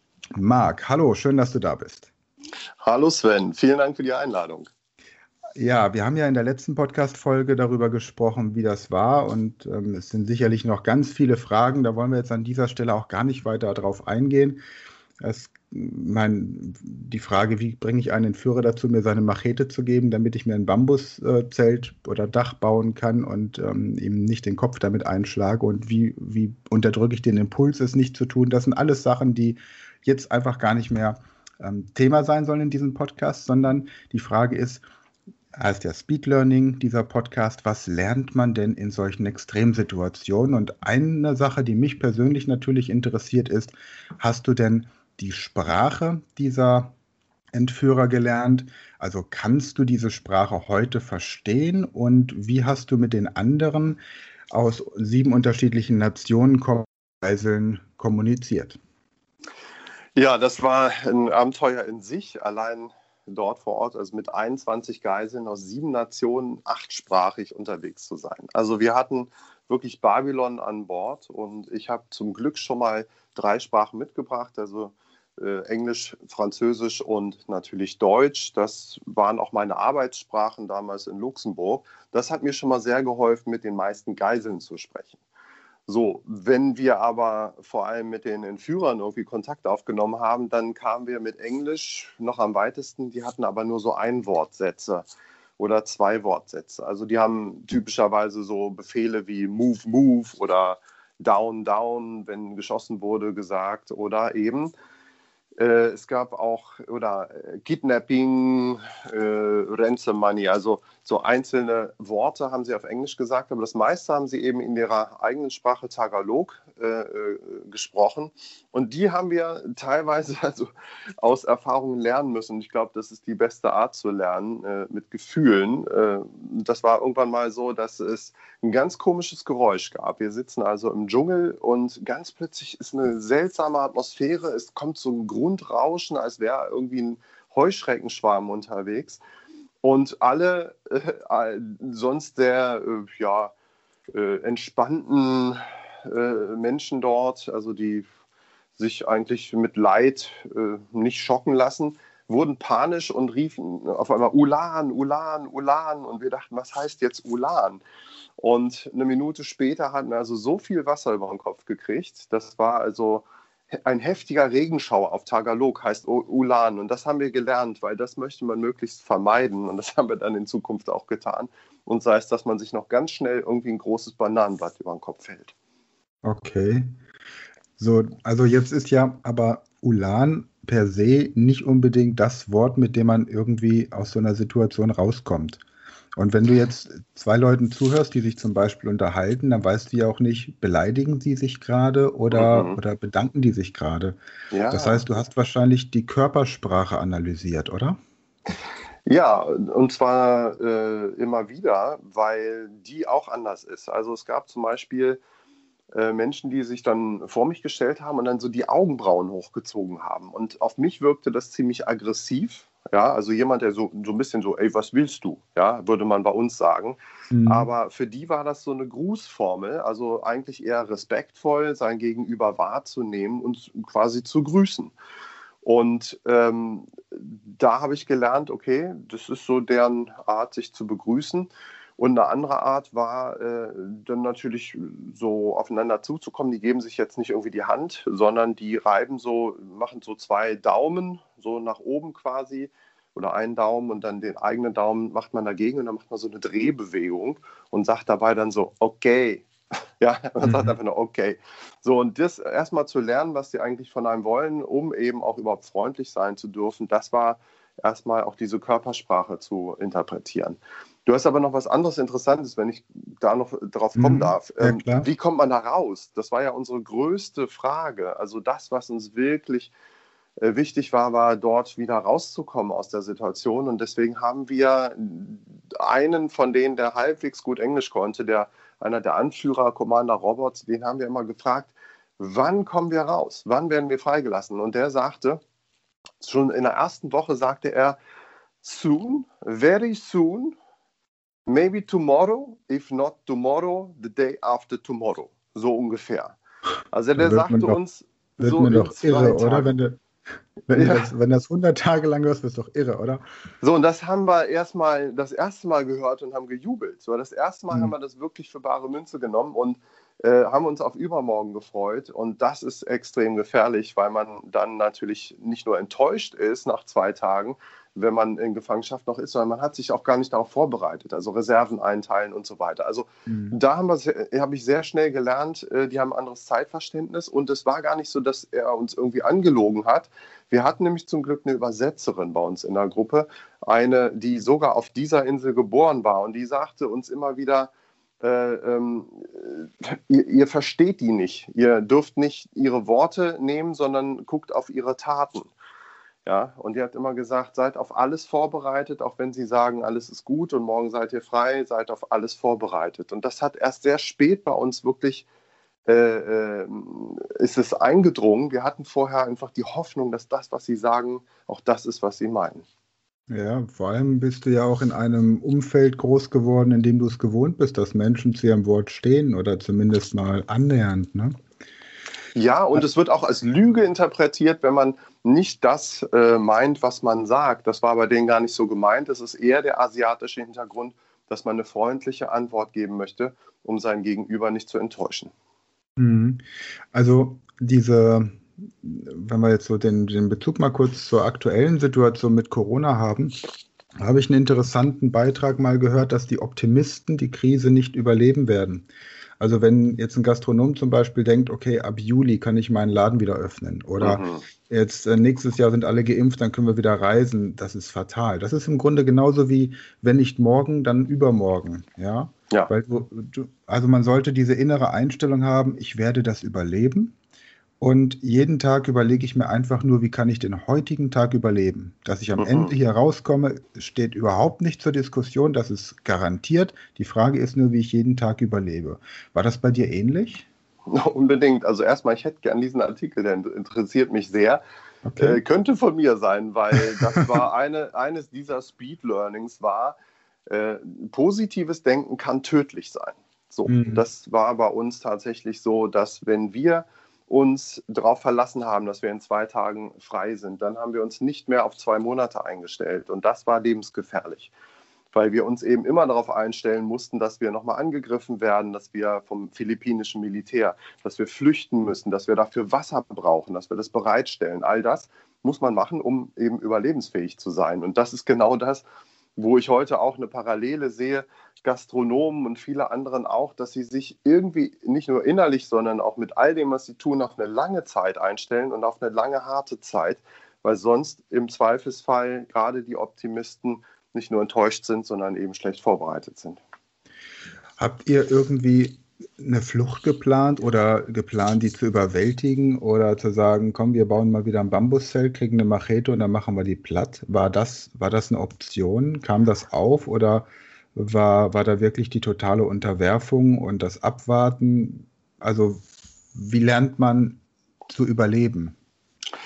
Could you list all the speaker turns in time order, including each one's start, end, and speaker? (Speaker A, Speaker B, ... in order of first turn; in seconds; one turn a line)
Speaker A: 0.3-2.1
Speaker B: 2.8-4.7
Speaker A: 5.6-14.6
Speaker A: 15.2-34.8
Speaker A: 35.5-46.9
Speaker A: 47.5-54.0
Speaker A: 54.5-58.8
Speaker B: 60.1-85.2
Speaker B: 85.9-95.1
Speaker B: 95.6-104.7
Speaker B: 105.6-139.2
Speaker B: 139.8-143.5
Speaker B: 144.1-148.1
Speaker B: 148.8-157.8
Speaker B: 158.4-163.2
Speaker B: 163.8-175.5
Speaker A: 176.2-176.9
Speaker A: 177.8-185.6
Speaker A: 186.2-194.2
Speaker B: 192.3-192.8
Speaker B: 194.5-195.1
Speaker A: 194.7-198.0
Speaker B: 199.1-205.2
Speaker B: 205.9-224.9
Speaker A: 217.3-217.7
Speaker B: 225.6-249.5
Speaker B: 250.0-269.7
Speaker A: 250.4-250.8
Speaker A: 263.9-265.1
Speaker B: 270.4-285.4
Speaker B: 286.2-288.0
Speaker B: 288.6-290.6
Speaker B: 291.5-296.4
Speaker B: 296.9-299.7
Speaker A: 297.2-297.8
Speaker A: 298.4-300.0
Speaker A: 300.7-303.2
Speaker B: 300.7-301.1
Speaker B: 303.6-345.5
Speaker A: 323.3-323.6
Speaker B: 346.2-355.2
Speaker B: 355.9-362.6
Speaker A: 363.3-371.4
Speaker B: 372.4-385.3
Speaker A: 386.0-393.4
Speaker A: 394.0-398.9
Speaker A: 399.4-417.1
Speaker B: 404.0-404.5
Speaker A: 417.8-430.5
Speaker B: 422.4-422.7
Speaker B: 430.9-434.6
Speaker A: 435.1-435.4
Speaker B: 435.2-440.0
Speaker B: 440.5-454.5
Speaker A: 443.7-444.1
Speaker B: 455.1-468.9
Speaker B: 469.4-486.6
Speaker A: 487.8-508.8